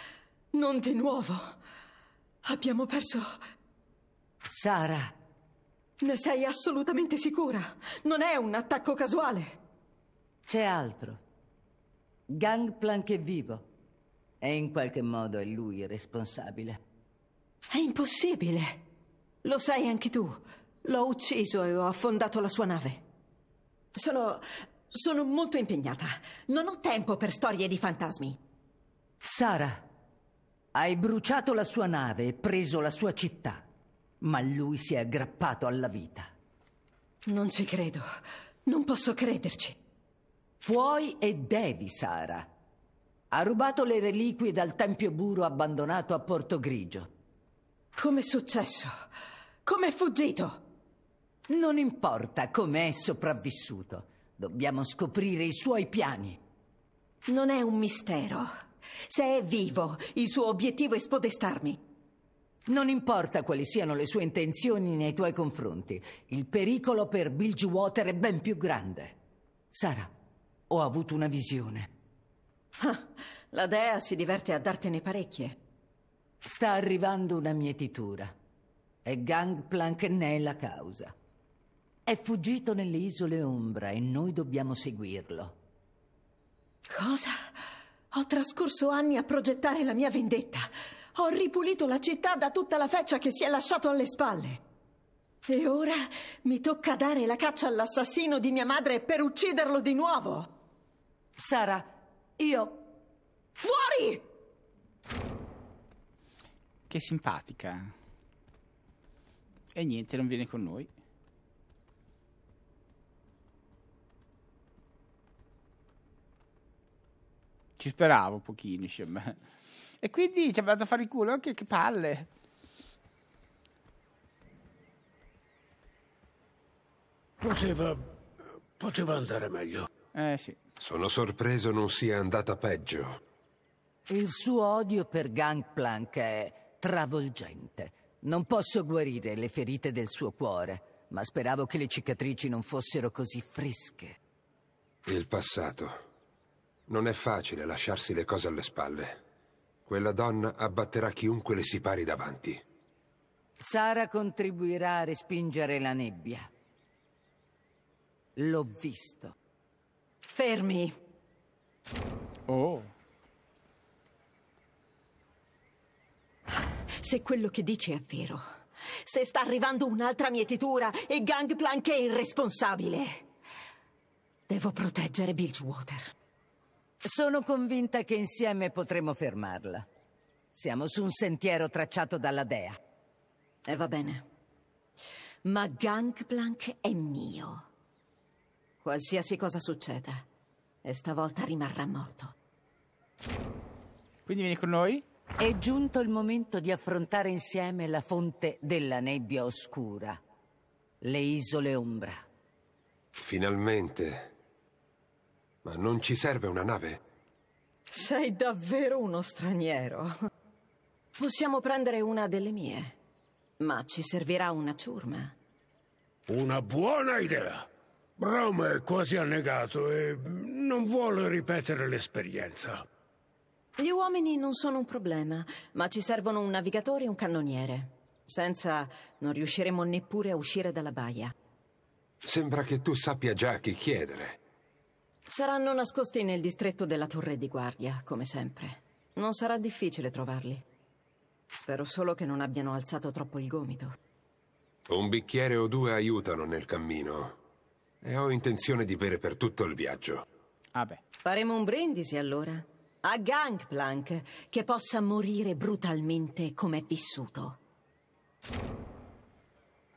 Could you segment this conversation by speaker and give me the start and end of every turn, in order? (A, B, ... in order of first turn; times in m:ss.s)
0:00.5-0:01.6 A
0:02.4-0:03.4 A
0:04.4-0:05.1 B
0:06.0-0:09.6 A
0:10.5-0:11.2 B
0:12.3-0:13.7 B
0:14.4-0:16.8 B
0:17.7-0:18.8 A
0:19.4-0:23.0 A
0:23.9-0:28.4 A
0:29.2-0:29.9 B
0:30.7-0:33.6 B
0:34.2-0:36.3 B
0:37.3-0:38.1 A
0:38.6-0:39.8 A
0:40.6-0:42.5 B
0:43.3-0:47.1 B
0:48.0-0:49.0 A
0:49.6-0:50.6 A
0:51.5-0:56.4 B
0:57.3-0:58.5 A
0:59.0-1:01.8 A
1:02.7-1:09.2 B
1:09.7-1:10.1 B
1:10.7-1:11.9 B
1:12.8-1:15.6 A
1:16.4-1:18.3 B
1:19.0-1:21.1 B
1:22.1-1:25.6 B
1:26.9-1:27.6 A
1:28.1-1:34.6 A
1:35.5-1:40.5 A
1:41.4-1:42.8 B
1:43.6-1:44.3 A
1:46.9-1:47.9 C
1:49.7-1:50.9 C
1:57.8-1:59.4 C
2:00.0-2:02.3 C
2:07.4-2:08.1 D
2:08.8-2:09.9 D
2:10.1-2:10.6 C
2:10.8-2:13.2 E
2:14.1-2:24.2 B
2:25.1-2:26.0 E
2:26.9-2:29.2 E
2:29.9-2:32.6 E
2:33.6-2:36.5 B
2:38.4-2:39.4 B
2:40.2-2:41.0 A
2:42.5-2:42.9 C
2:46.5-2:53.3 A
2:54.5-2:56.1 A
2:57.0-2:59.9 B
3:00.5-3:02.8 B
3:03.7-3:04.2 A
3:05.4-3:07.7 A
3:08.8-3:10.2 A
3:10.8-3:12.3 A
3:14.3-3:15.0 C
3:15.4-3:20.2 B
3:21.0-3:22.2 B
3:23.2-3:24.3 E
3:25.6-3:27.0 E
3:27.9-3:30.2 A
3:31.2-3:33.0 A
3:33.6-3:35.3 A
3:36.3-3:42.8 D
3:43.8-3:51.3 A
3:52.2-3:54.4 E
3:55.3-4:00.6 A
4:01.5-4:04.0 A
4:04.9-4:07.4 E
4:08.0-4:10.2 E
4:10.7-4:11.0 C
4:11.2-4:17.6 A